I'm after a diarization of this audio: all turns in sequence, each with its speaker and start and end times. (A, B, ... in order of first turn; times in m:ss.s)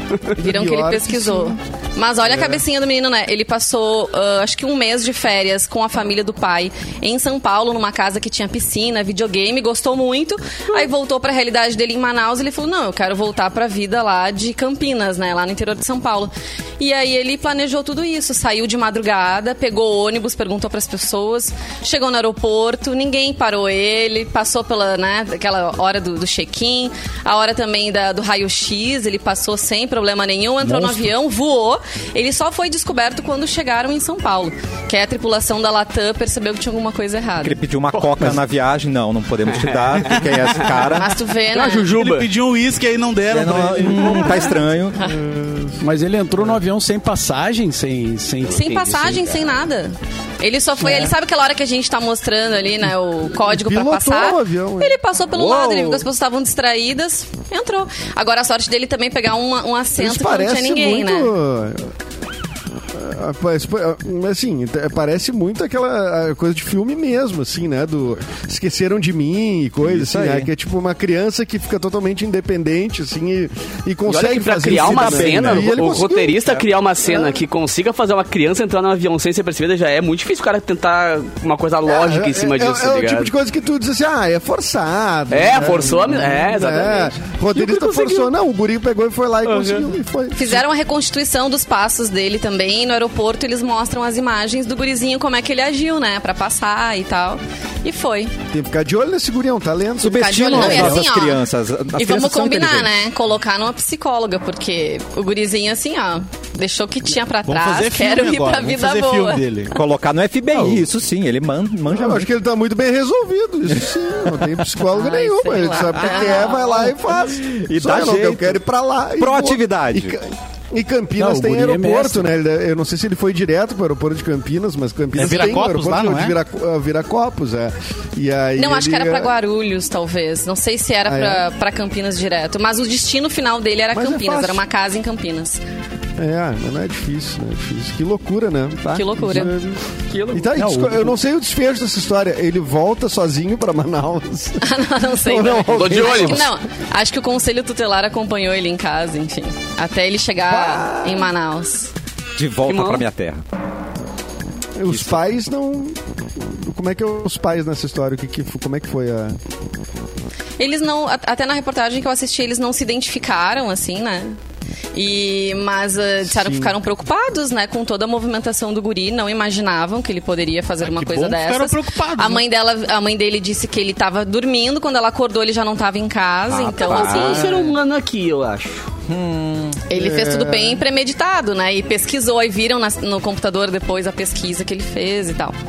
0:00.4-0:37.6 A
0:00.4-0:01.6 B
0:02.2-0:02.6 B
0:30.6-0:31.0 C
0:37.4-0:41.2 D
0:39.5-0:40.6 E
0:40.9-0:41.9 A
0:41.5-0:42.3 E
0:41.6-0:44.5 C
0:43.3-0:45.0 D
0:45.0-0:45.8 B
0:45.8-0:49.2 F
0:48.5-1:01.3 A
0:48.6-0:49.6 E
0:50.8-0:51.1 B
0:53.4-0:55.0 B
0:55.4-0:56.0 D
1:00.0-1:01.9 B
1:02.9-1:17.4 B
1:09.8-1:10.5 D
1:14.1-1:23.3 E
1:21.9-1:30.6 B
1:25.3-1:28.3 E
1:29.4-1:29.9 E
1:30.3-1:38.3 A
1:38.5-1:41.1 B
1:40.0-1:42.9 D
1:40.1-1:41.4 A
1:42.0-1:49.4 A
1:47.4-1:49.8 C
1:49.7-1:52.3 D
1:50.5-1:50.8 B
1:51.9-2:09.3 B
1:54.9-1:56.9 A
1:57.4-1:58.6 D
1:59.2-2:00.2 D
2:01.2-2:02.3 F
2:05.2-2:06.4 C
2:08.6-2:15.6 A
2:11.1-2:11.4 B
2:13.9-2:14.6 B
2:16.2-2:26.5 B
2:18.9-2:19.5 A
2:20.1-2:20.5 E
2:20.6-2:21.2 F
2:24.6-2:31.9 A
2:25.7-2:26.5 E
2:30.5-2:31.3 B
2:32.4-2:33.4 D
2:32.7-2:33.0 E
2:34.8-2:39.4 B
2:34.9-2:35.2 D
2:40.6-2:44.4 A
2:45.0-2:57.6 A
2:46.2-2:46.8 B
2:50.8-2:52.5 C
2:56.5-2:57.6 D
2:56.8-2:58.9 E
2:59.1-2:59.8 D
2:59.9-3:05.6 A
2:59.9-3:00.8 B